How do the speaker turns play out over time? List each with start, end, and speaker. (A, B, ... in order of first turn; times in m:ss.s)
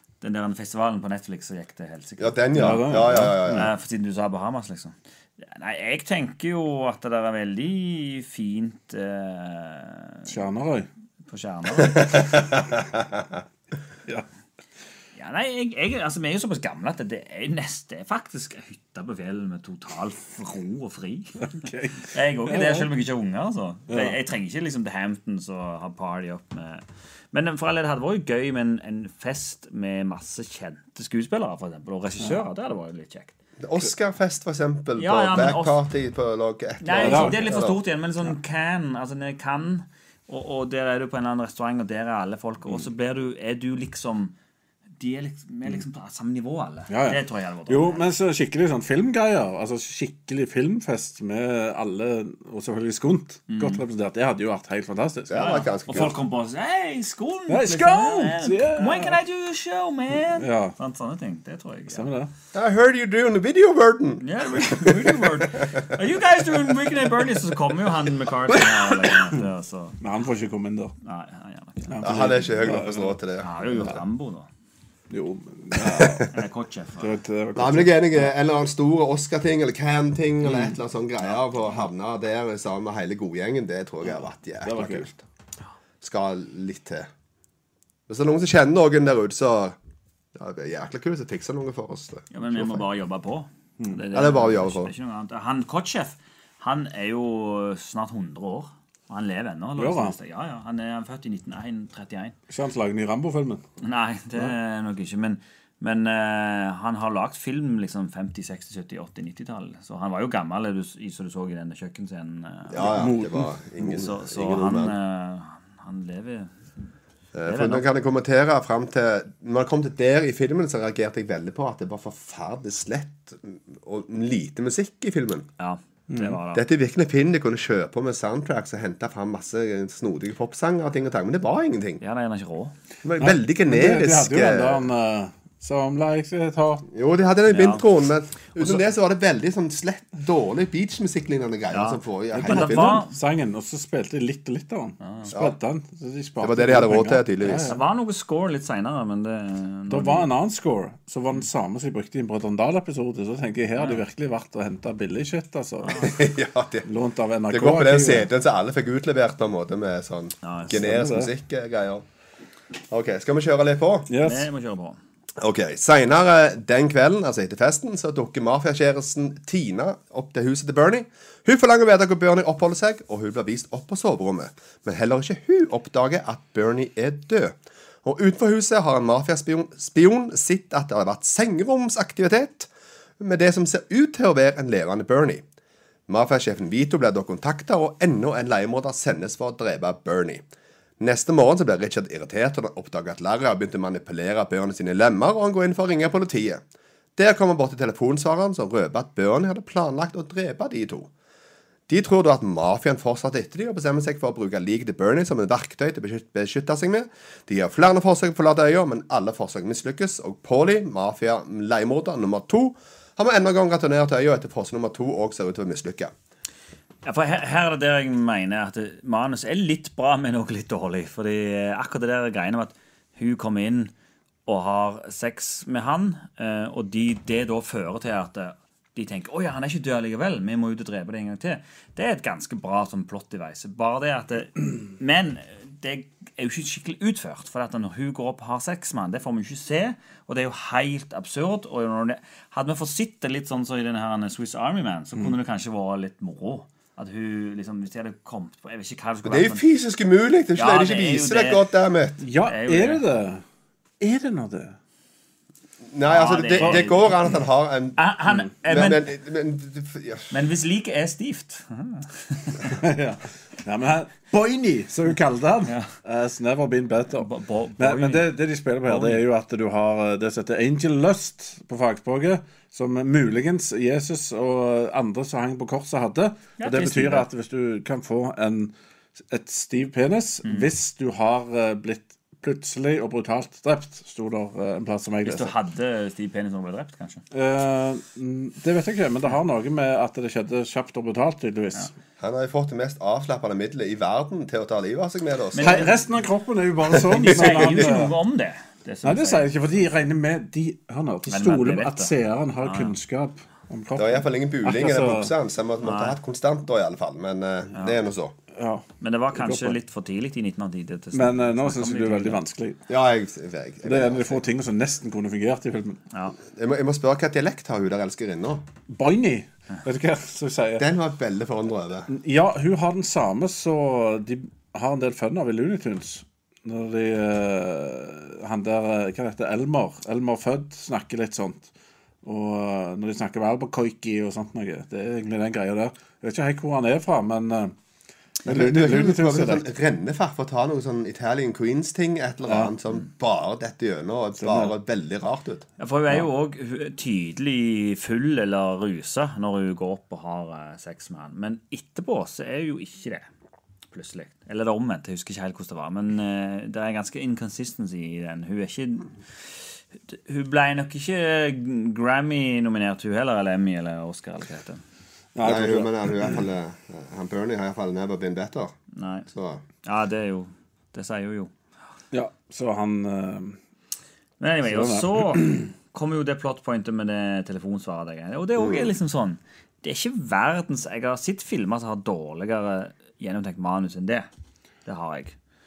0:00.2-0:10.3 A
0:02.2-0:03.7 B
0:02.5-0:03.7 C
0:10.3-0:10.9 C
0:11.3-0:12.4 A
0:12.0-0:12.8 B
0:15.2-0:33.3 A
0:21.4-0:22.9 C
0:23.9-0:24.1 C
0:33.6-0:37.8 B
0:35.0-0:35.8 A
0:36.8-0:44.3 A
0:37.0-0:37.5 C
0:45.0-0:48.1 A
0:46.9-0:55.6 C
0:53.5-0:53.8 A
0:55.3-0:56.1 B
0:55.3-1:02.1 A
0:57.5-0:59.2 C
1:00.4-1:00.7 C
1:01.9-1:02.3 C
1:02.5-1:05.9 B
1:04.2-1:10.0 A
1:10.0-1:10.9 C
1:11.0-1:12.2 A
1:11.9-1:13.2 C
1:12.0-1:13.9 B
1:13.4-1:14.5 A
1:15.1-1:16.4 C
1:15.8-1:16.2 B
1:16.3-1:17.1 A
1:17.0-1:18.3 C
1:17.6-1:25.2 B
1:20.4-1:20.7 C
1:24.6-1:25.1 C
1:26.0-1:27.1 B
1:28.1-1:29.8 B
1:30.3-1:32.8 B
1:32.3-1:42.4 A
1:34.1-1:34.9 B
1:39.8-1:40.1 C
1:42.5-1:43.6 C
1:43.8-1:53.0 A
1:52.7-1:54.9 B
1:52.8-1:53.5 C
1:53.8-1:56.6 A
1:57.3-2:05.5 B
1:57.4-1:57.8 A
2:05.6-2:06.6 A
2:06.1-2:06.4 C
2:06.5-2:12.0 B
2:12.0-2:12.7 A
2:13.0-2:14.8 B
2:13.2-2:16.9 C
2:16.9-2:23.0 B
2:17.5-2:17.8 A
2:21.7-2:23.1 A
2:22.3-2:27.8 C
2:25.0-2:25.3 A
2:26.4-2:27.7 B
2:27.6-2:30.3 A
2:29.9-2:36.0 C
2:35.8-2:36.2 A
2:36.0-2:36.8 B
2:36.8-2:38.3 C
2:37.5-2:42.0 B
2:40.4-2:40.8 A
2:40.7-2:41.3 C
2:42.9-2:44.1 B
2:44.1-2:44.5 C
2:44.2-2:45.0 A
2:45.4-3:02.7 B
3:03.2-3:05.4 B
3:06.1-3:10.4 B
3:11.0-3:16.6 B
3:17.2-3:21.1 B
3:21.9-3:36.1 B
3:37.0-3:43.9 A
3:44.4-4:09.6 A
4:09.2-4:12.2 B
4:10.6-4:11.6 A
4:12.2-4:13.4 C
4:12.4-4:13.0 A
4:14.0-4:14.8 C
4:15.9-4:18.0 B
4:16.1-4:17.2 A
4:16.6-4:16.8 C
4:18.0-4:19.0 A
4:18.6-4:20.3 B
4:20.3-4:22.7 A
4:22.6-4:38.7 C
4:27.2-4:28.3 A
4:28.8-4:29.2 A
4:36.6-4:37.3 A
4:39.3-4:45.5 C
4:45.2-4:47.2 A
4:47.3-4:51.9 C
4:52.2-4:55.9 B
4:55.5-4:56.0 A
4:55.6-4:58.1 C
4:57.1-4:59.6 A
4:57.1-4:57.9 B
4:59.0-5:05.3 C
5:01.3-5:02.9 A
5:04.0-5:08.3 B
5:05.8-5:06.2 A
5:08.5-5:09.8 C
5:09.0-5:12.4 A
5:11.1-5:12.8 C
5:12.9-5:14.4 B
5:13.8-5:16.0 C
5:16.5-5:18.6 B
5:18.9-5:20.8 C
5:20.8-5:22.1 B
5:22.1-5:31.7 C
5:32.2-5:37.7 C
5:38.4-5:39.6 C
5:38.4-5:45.6 B
5:42.5-5:42.7 C
5:44.4-5:44.7 C
5:45.8-5:53.3 A
5:53.9-6:04.8 A
6:05.3-6:05.9 C
6:05.4-6:08.7 B
6:08.9-6:09.3 A
6:09.3-6:09.6 B
6:09.8-6:11.5 A
6:12.1-6:13.6 C
6:14.4-6:24.3 A
6:14.6-6:15.6 C
6:18.6-6:18.8 B
6:24.8-6:25.4 A